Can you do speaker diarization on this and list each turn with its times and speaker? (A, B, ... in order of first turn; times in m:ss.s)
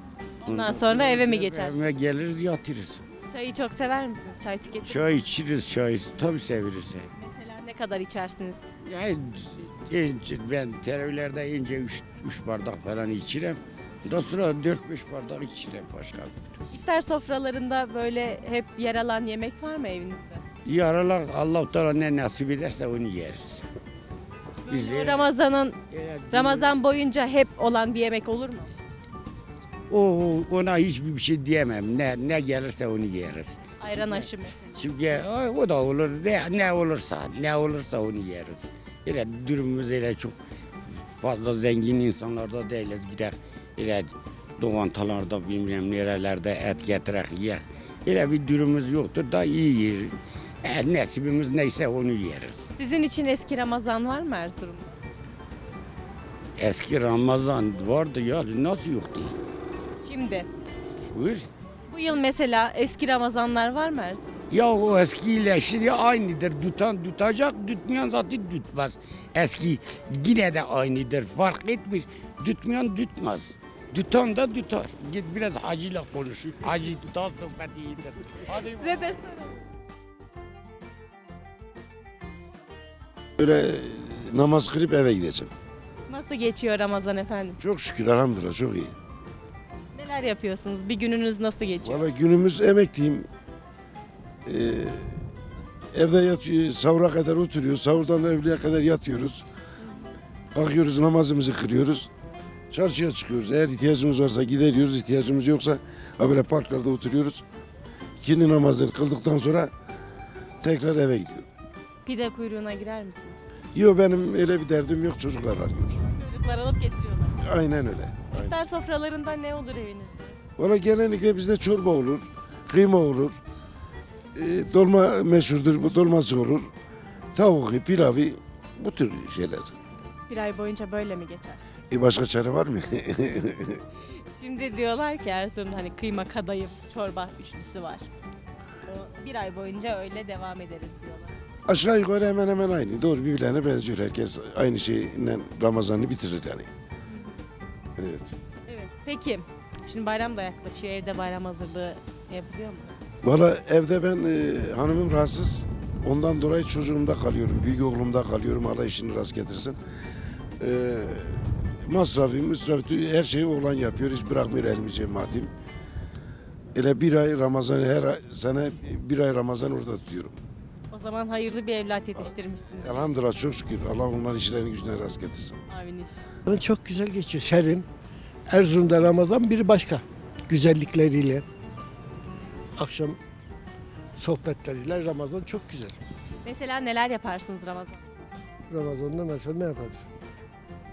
0:00.4-0:03.0 A
0:00.4-0:01.8 B
0:03.3-0:05.0 B
0:04.8-0:07.1 A
0:07.2-0:08.7 B
0:08.8-0:16.5 A
0:16.7-0:20.4 B
0:20.6-0:23.7 A
0:24.7-0:25.8 B
0:24.7-0:25.4 A
0:25.9-0:26.8 A
0:26.3-0:28.7 B
0:29.9-0:40.4 A
0:33.8-0:34.8 B
0:41.2-0:52.7 A
0:52.7-0:54.9 B
0:56.6-0:59.4 A
1:00.0-1:00.5 B
1:01.1-1:01.5 A
1:01.9-1:04.5 B
1:04.5-1:19.1 A
1:18.7-1:19.6 B
1:23.4-1:25.5 C
1:26.1-1:27.6 B
1:27.6-1:28.9 C
1:29.9-1:32.1 B
1:31.8-1:33.3 C
1:34.5-1:35.2 C
1:35.9-1:39.4 C
1:40.5-1:42.1 C
1:42.7-1:47.4 C
1:48.2-1:49.7 C
1:50.6-1:51.5 C
1:52.0-1:53.5 B
1:53.8-1:56.0 C
1:56.2-1:57.4 B
1:57.4-1:58.6 C
1:58.3-2:00.4 B
2:00.6-2:03.4 C
2:04.4-2:06.7 C
2:07.4-2:09.7 C
2:10.3-2:11.6 B
2:11.9-2:13.8 C
2:14.4-2:18.1 B
2:18.9-2:21.4 B
2:21.7-2:26.7 C
2:28.0-2:28.4 C
2:28.7-2:32.9 B
2:33.2-2:39.8 C
2:40.6-2:45.5 C
2:46.8-2:50.4 C
2:50.9-2:53.1 B
2:52.8-2:55.6 C
2:55.7-2:56.2 B
2:56.5-2:57.9 D
2:58.5-3:01.4 D
3:02.8-3:03.2 D
3:04.2-3:06.0 D
3:06.4-3:08.0 B
3:08.7-3:10.0 D